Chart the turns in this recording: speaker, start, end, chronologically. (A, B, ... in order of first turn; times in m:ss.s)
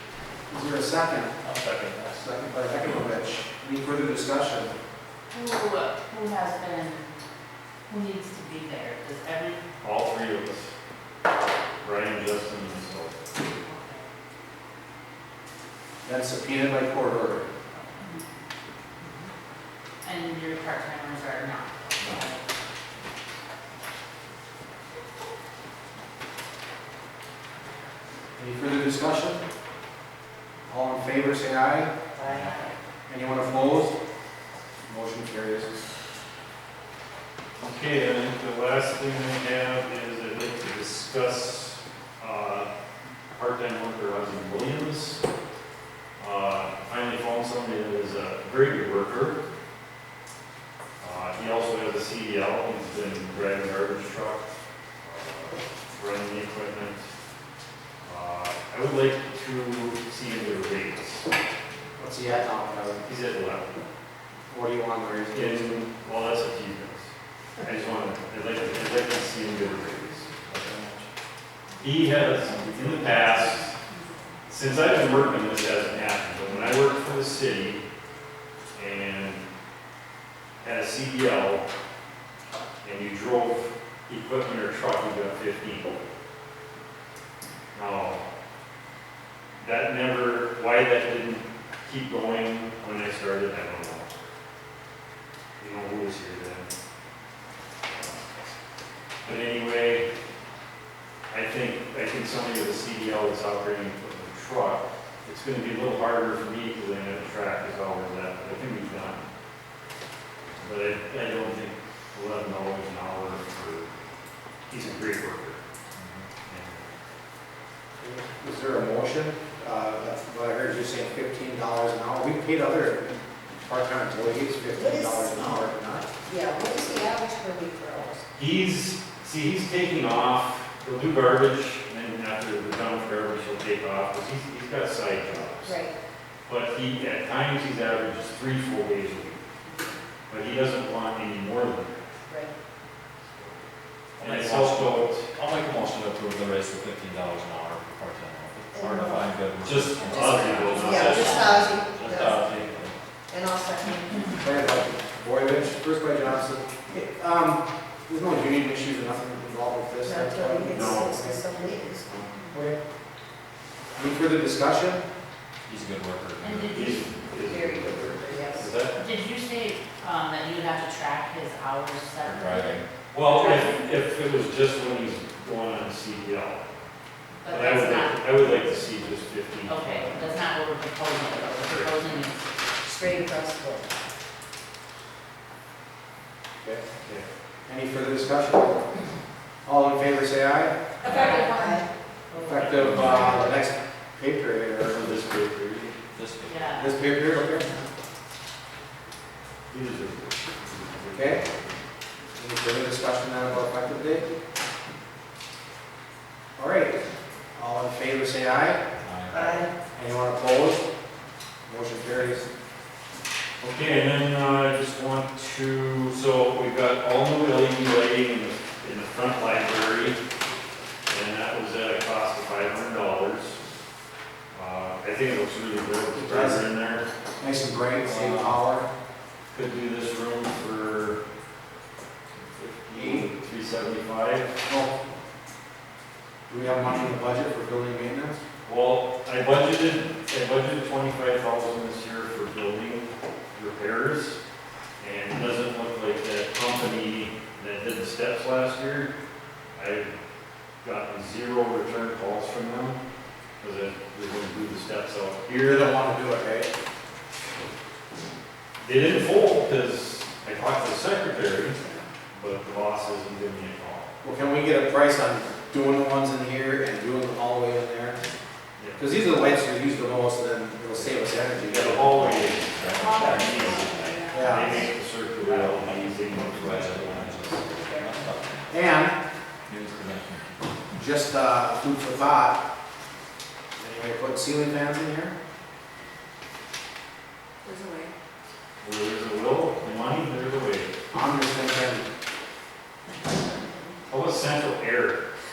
0:00.5-0:01.3 A
0:01.4-0:02.3 B
0:02.2-0:04.7 A
0:05.3-0:07.0 C
0:07.9-0:09.6 C
0:09.8-0:10.7 D
0:11.8-0:13.2 D
0:13.4-0:14.0 C
0:16.0-0:17.4 A
0:17.7-0:18.2 C
0:19.0-0:19.3 C
0:20.0-0:22.4 C
0:28.4-0:29.4 A
0:30.7-0:31.9 A
0:32.1-0:32.7 C
0:32.3-0:32.6 B
0:33.1-0:34.0 A
0:34.9-0:35.8 A
0:37.6-0:42.7 D
0:43.3-0:45.2 D
0:46.2-0:49.4 D
0:51.0-0:54.4 D
0:55.0-0:57.0 D
0:58.0-1:01.3 D
1:02.0-1:03.1 A
1:03.0-1:03.8 D
1:04.5-1:05.8 A
1:05.3-1:07.1 D
1:07.6-1:11.0 D
1:11.8-1:13.7 D
1:12.4-1:14.0 C
1:14.4-1:17.8 D
1:18.7-1:19.4 D
1:20.6-1:21.6 D
1:22.8-1:25.9 D
1:27.7-1:28.2 D
1:29.6-1:34.1 D
1:35.6-1:36.7 D
1:37.9-1:38.2 D
1:39.2-1:40.1 D
1:41.3-1:49.2 D
1:50.6-1:53.9 D
1:54.7-1:55.6 D
1:56.0-1:56.2 B
1:56.5-1:56.9 D
1:58.0-2:06.1 A
2:04.7-2:05.6 E
2:06.2-2:08.2 E
2:08.3-2:15.8 D
2:15.6-2:15.9 E
2:16.5-2:19.4 D
2:20.3-2:22.1 D
2:22.3-2:22.5 E
2:24.2-2:32.9 B
2:24.2-2:25.3 D
2:28.7-2:29.3 E
2:29.6-2:31.3 D
2:30.2-2:31.5 C
2:30.7-2:32.4 E
2:32.4-2:32.6 D
2:33.3-2:34.4 E
2:34.3-2:41.4 A
2:40.0-2:42.1 E
2:40.7-2:41.2 D
2:42.0-2:42.3 D
2:42.5-2:42.8 A
2:44.0-2:45.0 A
2:45.7-2:46.8 B
2:46.4-2:47.1 C
2:46.7-2:49.0 D
2:47.4-2:48.7 E
2:48.9-2:53.8 C
2:52.2-2:52.8 B
2:53.1-2:56.6 D
2:57.4-2:58.6 C
2:57.5-3:00.3 D
2:59.6-3:02.5 C
3:01.6-3:02.2 D
3:02.8-3:03.9 E
3:07.0-3:07.3 D
3:07.7-3:08.8 A
3:09.6-3:10.8 A
3:11.0-3:11.8 C
3:11.0-3:11.8 E
3:12.4-3:15.1 A
3:12.6-3:13.3 D
3:12.7-3:13.4 B
3:12.9-3:13.4 C
3:14.8-3:16.0 D
3:16.1-3:16.9 B
3:16.4-3:17.6 C
3:16.8-3:17.7 A
3:19.7-3:21.8 D
3:21.1-3:21.4 A
3:22.3-3:24.3 A
3:26.6-3:27.0 A
3:27.5-3:28.8 A
3:29.0-3:29.6 B
3:29.3-3:29.7 E
3:29.9-3:30.8 A
3:31.6-3:32.5 A
3:33.6-3:40.2 D
3:41.1-3:43.6 D
3:44.5-3:47.1 D
3:46.1-3:46.6 A
3:47.4-3:48.9 A
3:48.0-3:48.6 D
3:49.5-3:51.2 D
3:52.3-3:54.5 D
3:52.9-3:53.3 A
3:54.6-3:54.9 A
3:56.5-3:58.4 A
3:58.6-4:04.4 D
4:05.0-4:09.1 D
4:09.8-4:10.1 D
4:10.8-4:13.0 D
4:13.6-4:16.0 D
4:15.5-4:16.7 A
4:18.8-4:24.1 D
4:24.2-4:28.2 A
4:28.8-4:29.0 D
4:29.0-4:32.6 A
4:31.7-4:37.6 D
4:32.1-4:34.3 B
4:32.9-4:34.8 C
4:34.3-4:34.9 A
4:35.4-4:39.0 B
4:37.8-4:38.2 E
4:38.7-4:39.2 A
4:39.6-4:41.0 B
4:40.9-4:42.6 A
4:43.8-4:45.3 A
4:47.6-4:48.1 E
4:48.8-4:50.9 D
4:51.1-4:52.1 A
4:54.1-4:55.2 D